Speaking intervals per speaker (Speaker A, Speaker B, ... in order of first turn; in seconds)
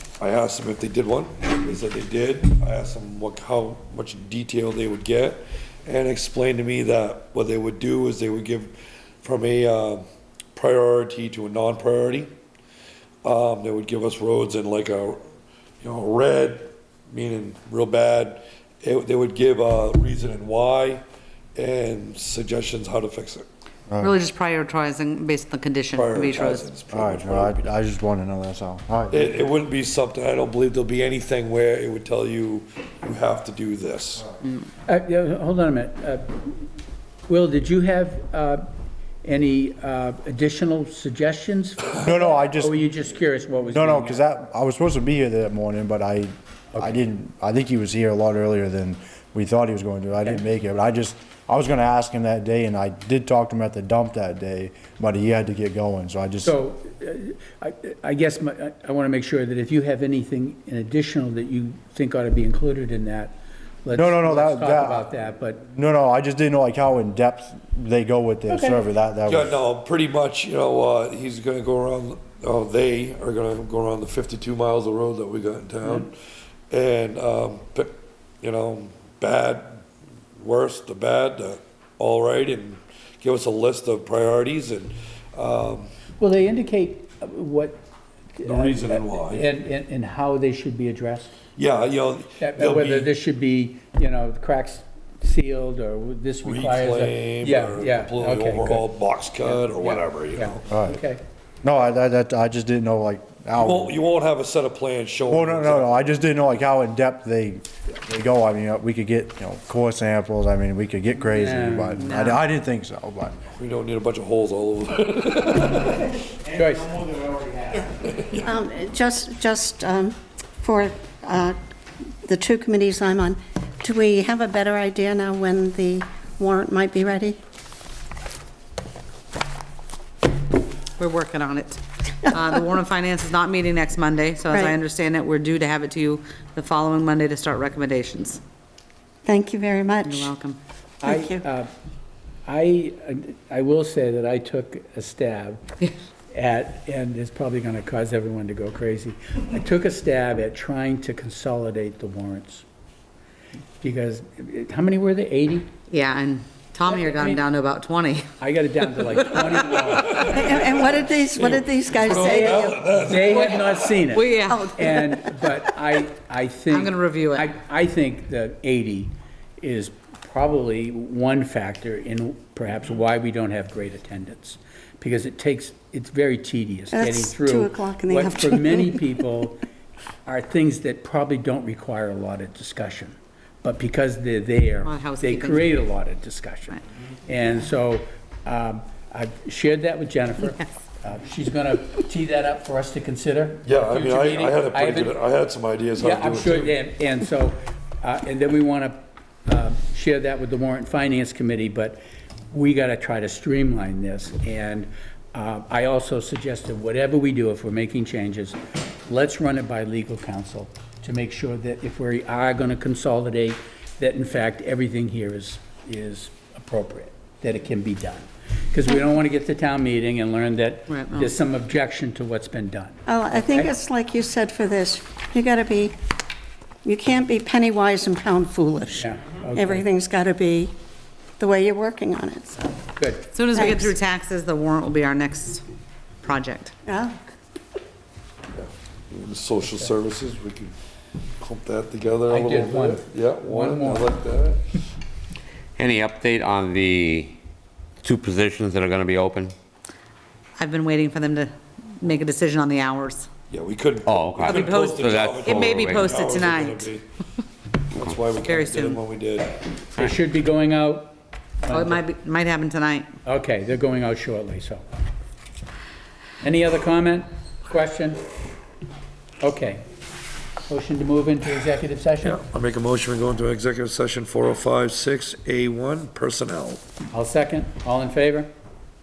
Speaker A: 0.2-12.3, 13.2-15.2, 15.8-21.0, 21.5-23.4, 25.9-27.6, 29.1-34.3, 69.3-76.1, 76.7-79.8, 80.4-85.9, 88.4-89.5, 91.6-93.1, 96.4-100.7, 103.6-106.2, 113.5-116.1, 160.1-164.1, 193.6-196.8, 238.5-240.7, 241.4-244.8, 253.5-257.0, 257.9-259.5, 272.2-276.8
Speaker B: 24.0-26.7, 34.4-34.7, 112.0-112.4, 131.0-138.4, 140.1-140.6, 155.9-158.3, 158.9-159.8, 163.1-164.8, 166.7-167.5, 184.8-185.7, 220.9-221.3, 233.3-235.6, 236.2-236.7, 250.6-253.3, 254.4-256.9, 258.4-259.0, 261.7-263.1
Speaker C: 26.9-29.3, 42.0-42.8, 43.7-56.6, 63.9-65.1, 65.6-69.6, 100.7-101.0, 101.6-104.0, 105.3-113.4
Speaker D: 34.9-36.6, 37.3-38.6, 39.2-44.3, 56.4-65.7, 68.5-68.8, 86.2-87.8, 88.4-91.3, 92.4-101.2, 111.2-112.0, 116.5-117.0, 141.0-141.7, 142.5-145.6, 146.3-152.6, 153.8-155.7, 156.8-157.4, 158.4-160.5, 162.3-179.6, 180.2-195.2, 196.0-202.0, 202.5-223.7, 229.0-229.8, 233.0-233.4, 239.6-239.9, 242.3-244.2, 259.9-262.0, 263.2-264.8, 266.4-268.2, 269.4-269.8, 270.7-272.4, 277.1-278.5
Speaker E: 117.7-121.5, 122.2-127.4, 134.5-134.7, 139.2-140.3, 141.0-141.4, 160.1-163.1, 164.4-165.4, 176.9-179.1, 223.1-225.9, 226.8-230.7, 231.4-232.7, 233.5-233.9, 236.8-237.2
Speaker F: 245.8-247.3, 248.0-249.5, 254.0-256.2